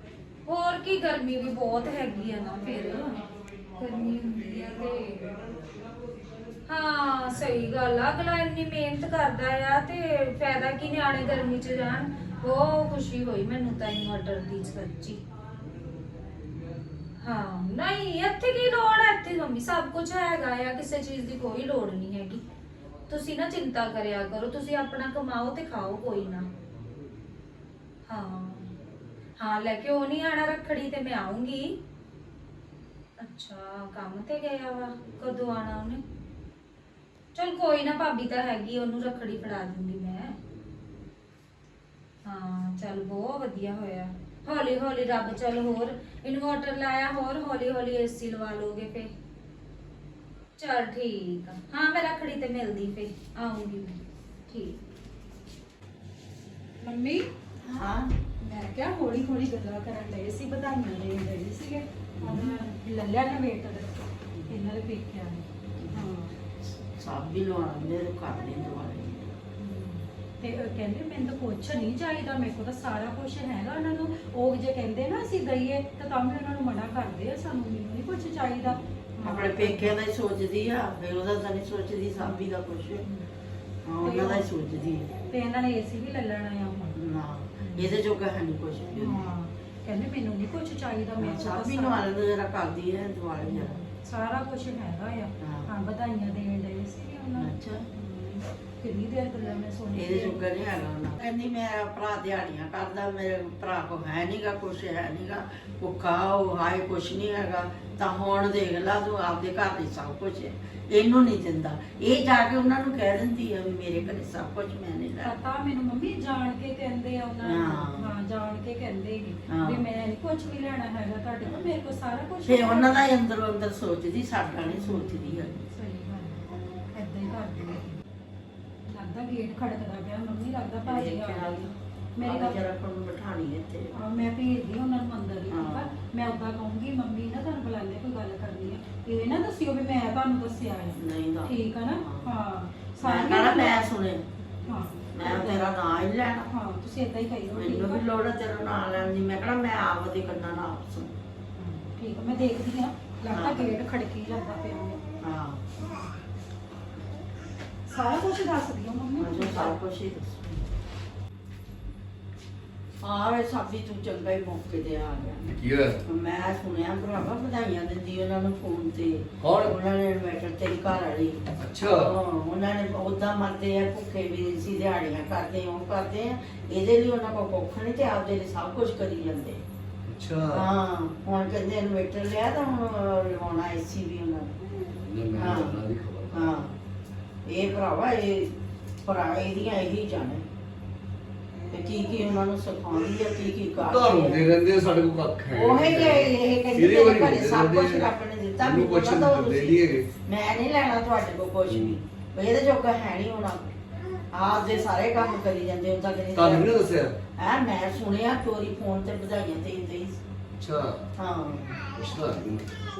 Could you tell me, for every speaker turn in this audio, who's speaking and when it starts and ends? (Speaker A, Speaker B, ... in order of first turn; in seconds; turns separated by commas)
Speaker A: 0.5-3.2, Speaker A: 3.8-5.4, Speaker A: 6.7-15.2, Speaker A: 17.2-22.4, Speaker A: 23.1-26.5, Speaker A: 28.1-28.7, Speaker A: 29.4-31.8, Speaker A: 33.2-36.0, Speaker A: 37.3-40.4, Speaker A: 42.2-49.1, Speaker A: 50.6-54.0, Speaker A: 54.5-54.8, Speaker B: 56.8-57.2, Speaker C: 57.6-58.1, Speaker B: 58.4-66.3, Speaker C: 62.2-62.6, Speaker C: 65.8-69.4, Speaker B: 69.6-79.9, Speaker C: 78.7-83.0, Speaker C: 83.8-85.1, Speaker B: 84.0-84.5, Speaker B: 85.3-87.0, Speaker C: 86.9-89.3, Speaker B: 87.6-87.9, Speaker B: 89.0-92.0, Speaker C: 91.2-93.8, Speaker B: 93.5-100.4, Speaker C: 95.4-95.7, Speaker C: 97.4-97.9, Speaker C: 99.9-115.3, Speaker B: 115.2-123.1, Speaker C: 117.4-118.1, Speaker C: 119.5-119.8, Speaker C: 122.4-125.7, Speaker B: 124.7-128.0, Speaker B: 128.9-132.6, Speaker C: 130.8-134.1, Speaker B: 133.9-143.9, Speaker C: 135.5-136.0, Speaker C: 140.9-142.3, Speaker C: 143.0-144.3, Speaker B: 144.6-145.7, Speaker C: 145.1-146.5, Speaker B: 146.5-148.0, Speaker C: 147.5-151.2, Speaker B: 151.6-155.0, Speaker C: 153.3-153.8, Speaker C: 155.2-155.7, Speaker B: 157.9-159.8, Speaker C: 159.2-160.6, Speaker C: 163.0-179.6, Speaker D: 165.5-166.0, Speaker D: 169.4-169.8, Speaker D: 171.6-172.1, Speaker D: 180.1-180.7, Speaker C: 180.5-184.6, Speaker D: 185.0-186.6, Speaker C: 185.3-185.8, Speaker C: 186.3-186.7, Speaker C: 187.5-188.5, Speaker C: 189.0-190.4, Speaker C: 191.7-194.5, Speaker D: 193.8-198.1, Speaker C: 195.5-203.8, Speaker D: 198.6-200.1, Speaker D: 201.7-201.9, Speaker C: 204.3-206.7, Speaker D: 206.3-207.2, Speaker C: 207.4-210.2, Speaker D: 210.6-211.0, Speaker C: 211.2-211.8, Speaker D: 211.9-212.7